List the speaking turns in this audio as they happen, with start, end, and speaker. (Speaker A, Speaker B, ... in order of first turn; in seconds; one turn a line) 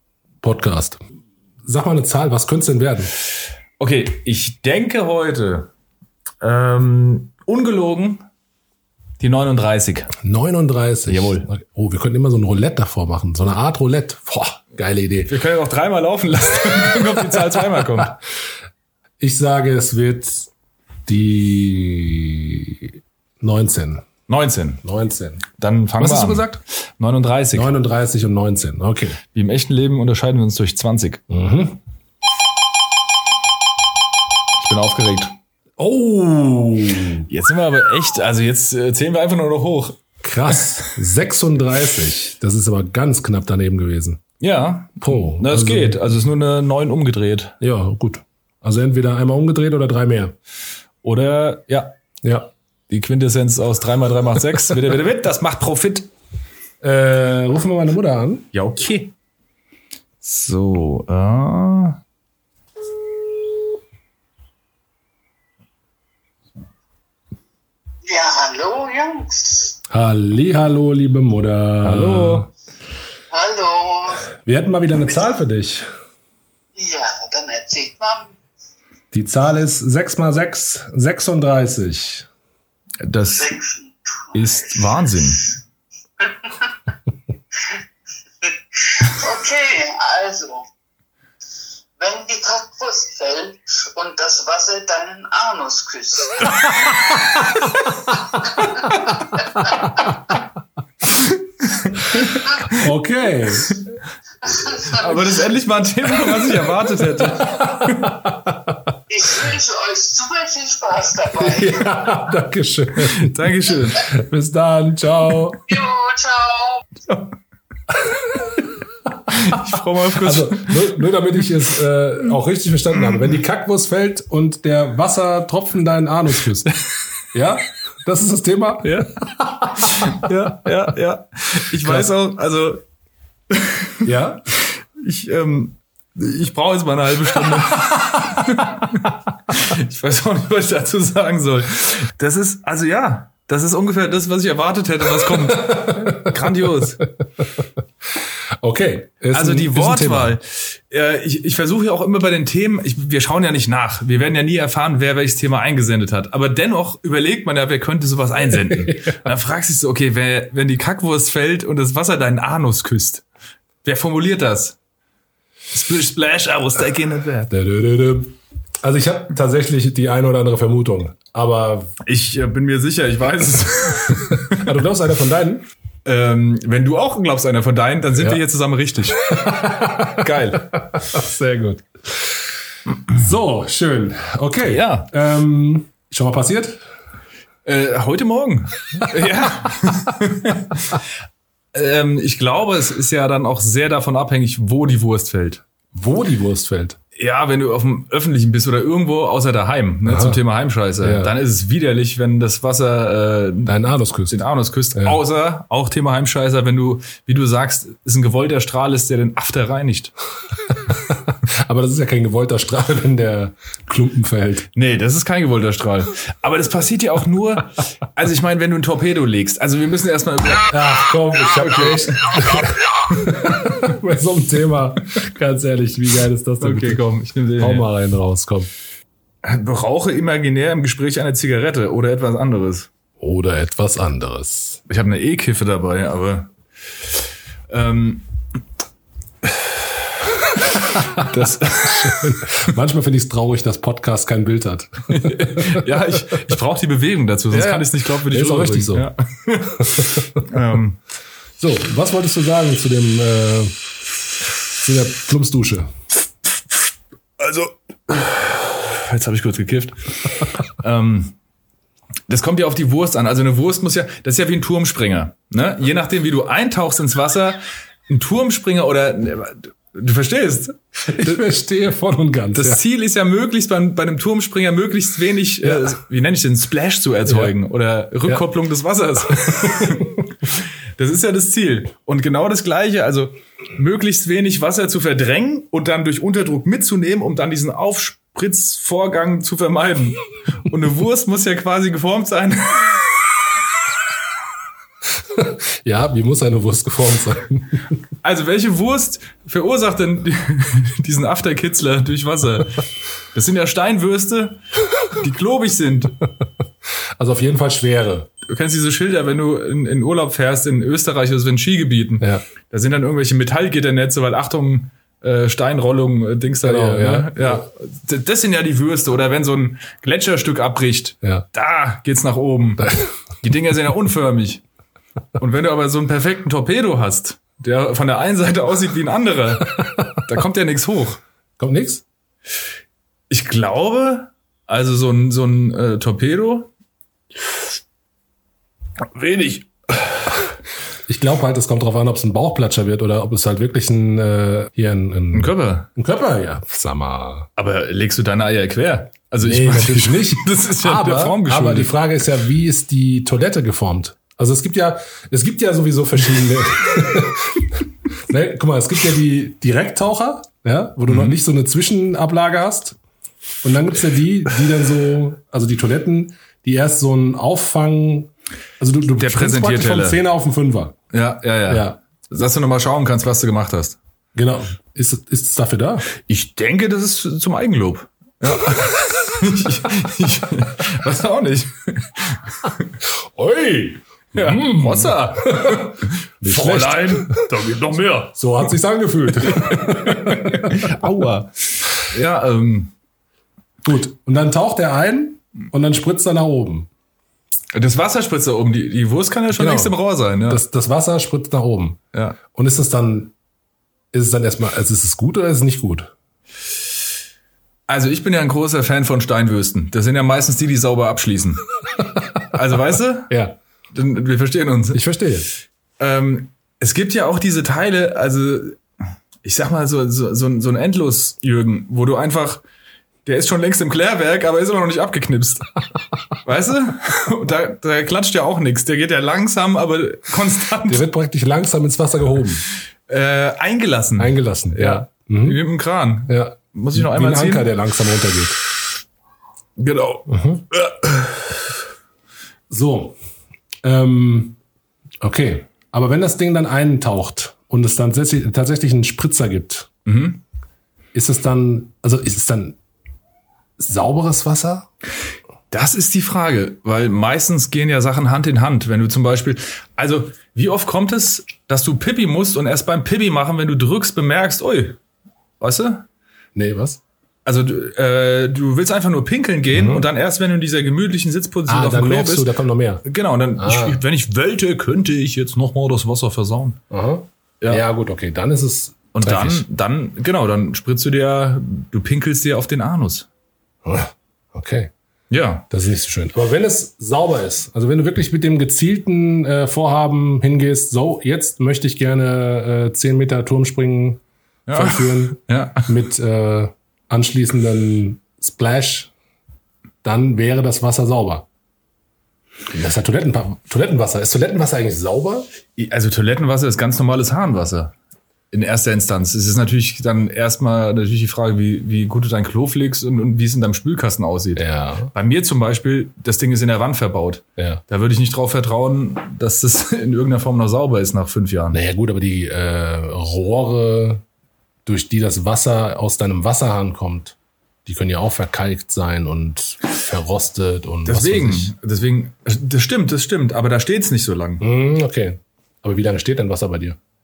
Speaker A: 0.4-1.0
Speaker A: 1.6-3.1
Speaker B: 3.8-5.7
Speaker B: 6.4-8.2
Speaker B: 9.2-10.1
Speaker A: 10.2-15.3
Speaker B: 11.1-11.5
Speaker B: 15.3-18.2
Speaker A: 19.2-20.5
Speaker A: 21.1-24.1
Speaker B: 24.3-24.8
Speaker A: 24.8-25.4
Speaker B: 25.6-27.7
Speaker A: 26.0-26.6
Speaker A: 27.5-29.2
Speaker B: 29.3-31.2
Speaker A: 31.3-31.8
Speaker B: 34.6-35.4
Speaker A: 35.8-37.3
Speaker B: 37.3-40.0
Speaker A: 40.2-44.2
Speaker B: 44.4-47.6
Speaker A: 45.0-46.0
Speaker A: 47.6-50.3
Speaker B: 51.0-51.9
Speaker A: 52.2-52.5
Speaker B: 52.9-56.1
Speaker A: 56.8-58.5
Speaker B: 58.5-59.1
Speaker B: 60.2-62.0
Speaker C: 68.1-69.8
Speaker A: 69.9-72.5
Speaker B: 71.8-72.5
Speaker C: 73.3-74.3
Speaker A: 74.4-75.9
Speaker C: 76.8-78.3
Speaker A: 79.1-82.3
Speaker B: 83.0-83.5
Speaker C: 83.3-84.8
Speaker B: 84.3-85.5
Speaker C: 86.2-86.5
Speaker C: 88.4-90.7
Speaker C: 92.0-97.0
Speaker C: 98.4-100.0
Speaker B: 98.9-99.2
Speaker B: 101.1-102.8
Speaker A: 102.7-103.7
Speaker C: 104.4-105.3
Speaker B: 104.9-108.2
Speaker A: 107.4-108.6
Speaker C: 109.1-112.0
Speaker A: 111.4-113.4
Speaker B: 113.0-114.1
Speaker A: 114.0-115.7
Speaker C: 115.7-116.9
Speaker A: 118.1-118.5
Speaker B: 119.3-120.8
Speaker A: 120.2-126.7
Speaker A: 127.3-130.3
Speaker B: 128.8-132.8
Speaker A: 131.8-132.1
Speaker B: 133.5-134.1
Speaker A: 134.0-134.4
Speaker B: 134.6-147.1
Speaker A: 145.4-146.4
Speaker A: 148.6-150.4
Speaker B: 149.3-163.2
Speaker B: 163.8-164.8
Speaker B: 165.7-167.5
Speaker A: 167.5-171.9
Speaker B: 172.1-174.7
Speaker A: 174.3-175.7
Speaker B: 176.1-181.2
Speaker A: 179.4-180.3
Speaker A: 181.0-182.2
Speaker A: 183.1-186.8
Speaker B: 184.7-185.1
Speaker B: 187.7-191.0
Speaker B: 191.7-195.6
Speaker A: 195.9-197.0
Speaker B: 197.2-203.8
Speaker A: 200.1-200.4
Speaker A: 201.0-201.3
Speaker A: 203.7-204.4
Speaker B: 204.3-210.1
Speaker A: 210.9-214.7
Speaker B: 214.8-220.7
Speaker A: 220.7-227.0
Speaker B: 221.6-222.3
Speaker B: 223.1-223.7
Speaker B: 226.6-227.9
Speaker A: 227.6-228.7
Speaker B: 229.4-232.9
Speaker A: 233.2-234.8
Speaker B: 234.9-236.5
Speaker B: 237.7-238.3
Speaker B: 239.4-239.9
Speaker A: 241.2-245.9
Speaker B: 241.2-242.4
Speaker B: 245.1-251.0
Speaker A: 247.5-249.1
Speaker A: 249.8-250.2
Speaker A: 251.6-253.8
Speaker A: 254.8-255.9
Speaker B: 257.4-261.4
Speaker B: 262.3-271.4
Speaker A: 271.1-272.8
Speaker B: 272.6-293.0
Speaker A: 277.3-277.5
Speaker A: 279.6-280.1
Speaker A: 295.3-297.9
Speaker B: 298.2-306.2
Speaker A: 307.2-308.3
Speaker B: 308.5-324.6
Speaker A: 316.6-317.7
Speaker B: 325.4-331.2
Speaker A: 331.6-332.0
Speaker B: 333.3-336.7
Speaker B: 339.0-340.4
Speaker A: 341.1-347.5
Speaker B: 345.3-345.9
Speaker B: 347.6-351.9
Speaker A: 349.4-363.0
Speaker B: 361.1-361.4
Speaker A: 363.6-371.0
Speaker B: 369.2-370.2
Speaker B: 371.1-374.0
Speaker A: 371.7-372.0
Speaker A: 374.4-376.1
Speaker B: 376.2-382.9
Speaker A: 383.3-387.4
Speaker B: 384.3-388.4
Speaker A: 388.4-391.0
Speaker B: 389.5-392.9
Speaker A: 393.8-396.9
Speaker B: 397.7-400.6
Speaker A: 399.5-402.0
Speaker A: 402.5-403.3
Speaker A: 404.1-406.1
Speaker B: 407.9-411.6
Speaker B: 412.4-413.4
Speaker A: 413.3-413.6
Speaker B: 413.9-415.0
Speaker A: 414.9-415.5
Speaker B: 416.0-418.8
Speaker B: 419.4-422.6
Speaker B: 423.2-425.7
Speaker B: 426.4-431.1
Speaker A: 430.9-432.6
Speaker B: 433.1-437.7
Speaker A: 434.2-435.6
Speaker A: 436.3-438.6
Speaker B: 439.8-441.6
Speaker A: 440.3-440.6
Speaker A: 442.7-443.2
Speaker A: 443.8-444.6
Speaker A: 445.2-449.9
Speaker B: 450.1-450.4
Speaker A: 451.1-452.8
Speaker A: 453.8-454.9
Speaker B: 455.7-465.0
Speaker B: 465.6-466.1
Speaker A: 466.6-467.0
Speaker B: 467.4-472.5
Speaker A: 469.7-470.1
Speaker A: 471.7-473.0
Speaker B: 473.1-476.8
Speaker A: 473.6-474.0
Speaker A: 476.9-479.6
Speaker B: 479.1-483.3
Speaker A: 483.9-484.9
Speaker B: 485.3-485.7
Speaker A: 485.7-494.2
Speaker B: 494.7-495.9
Speaker A: 494.7-499.1
Speaker A: 500.0-501.5
Speaker A: 502.7-505.5
Speaker B: 505.8-507.9
Speaker B: 508.5-521.8
Speaker A: 514.6-515.1
Speaker A: 517.6-517.8
Speaker A: 521.7-524.2
Speaker A: 524.9-531.7
Speaker B: 531.1-534.6
Speaker A: 534.6-537.0